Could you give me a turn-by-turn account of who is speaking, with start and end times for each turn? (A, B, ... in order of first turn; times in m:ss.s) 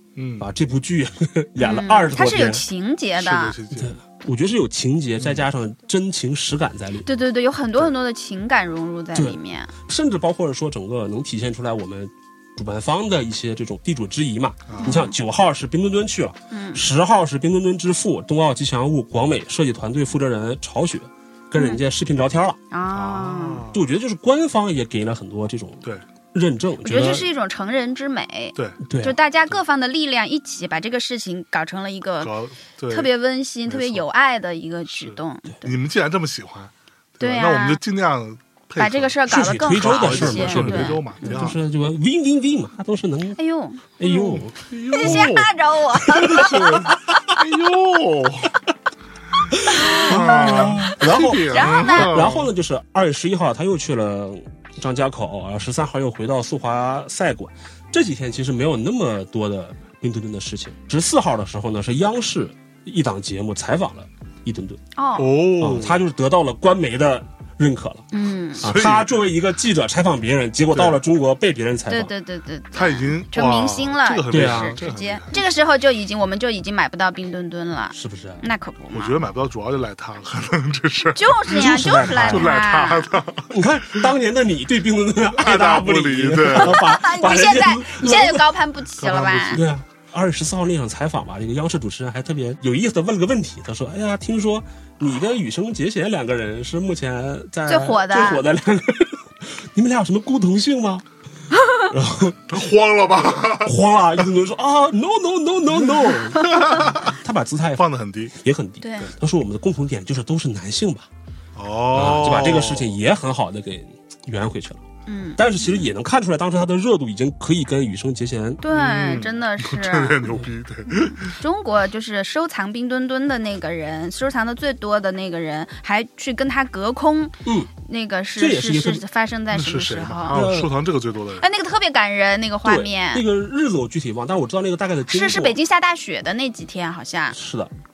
0:00.2-0:00.5 A
0:00.4-0:02.6 B
0:01.6-0:03.6 C
0:03.2-0:04.0 A
0:03.7-0:07.1 B
0:05.2-0:05.4 A
0:07.0-0:09.7 C
0:09.1-0:22.6 B
0:14.7-0:15.0 A
0:14.8-0:15.1 C
0:16.5-0:16.8 C
0:21.5-0:21.8 C
0:22.7-0:23.6 C
0:22.9-0:23.8 A
0:23.7-0:27.3 B
0:26.8-0:32.3 C
0:28.8-0:29.2 B
0:32.2-0:33.1 A
0:32.9-0:35.7 C
0:33.7-0:34.0 A
0:34.9-0:41.6 A
0:37.2-0:37.8 C
0:38.8-0:41.4 C
0:39.3-0:43.4 B
0:43.4-0:43.9 C
0:44.0-0:45.3 B
0:44.0-0:45.5 A
0:44.9-0:47.0 C
0:46.0-0:46.9 B
0:46.2-0:48.5 A
0:49.5-1:04.8 B
0:49.7-0:52.3 C
0:49.7-0:52.5 A
1:05.0-1:05.4 C
1:05.2-1:06.0 A
1:05.6-1:08.0 B
1:08.1-1:08.7 C
1:08.6-1:12.1 B
1:08.6-1:09.2 A
1:10.7-1:11.0 A
1:11.9-1:19.2 C
1:12.7-1:15.4 A
1:14.3-1:14.8 B
1:17.9-1:18.5 B
1:18.9-1:24.0 A
1:21.1-1:23.1 C
1:21.5-1:22.5 B
1:23.5-1:28.5 B
1:25.3-1:26.8 A
1:26.5-1:29.6 C
1:29.0-1:29.6 A
1:29.5-1:41.0 B
1:37.7-1:38.4 C
1:41.8-1:42.5 B
1:42.5-1:43.7 A
1:43.6-1:51.1 B
1:46.1-1:47.1 A
1:47.8-1:48.3 A
1:48.8-1:49.1 C
1:51.5-1:53.0 A
1:51.9-1:54.8 B
1:55.1-1:55.9 C
1:55.4-1:58.6 B
1:58.6-2:00.3 C
1:58.7-2:01.3 A
2:00.9-2:10.4 C
2:07.4-2:07.7 B
2:08.4-2:09.0 B
2:09.5-2:11.4 A
2:10.3-2:10.7 B
2:11.4-2:13.2 C
2:12.6-2:15.6 B
2:15.1-2:17.4 C
2:17.3-2:17.7 B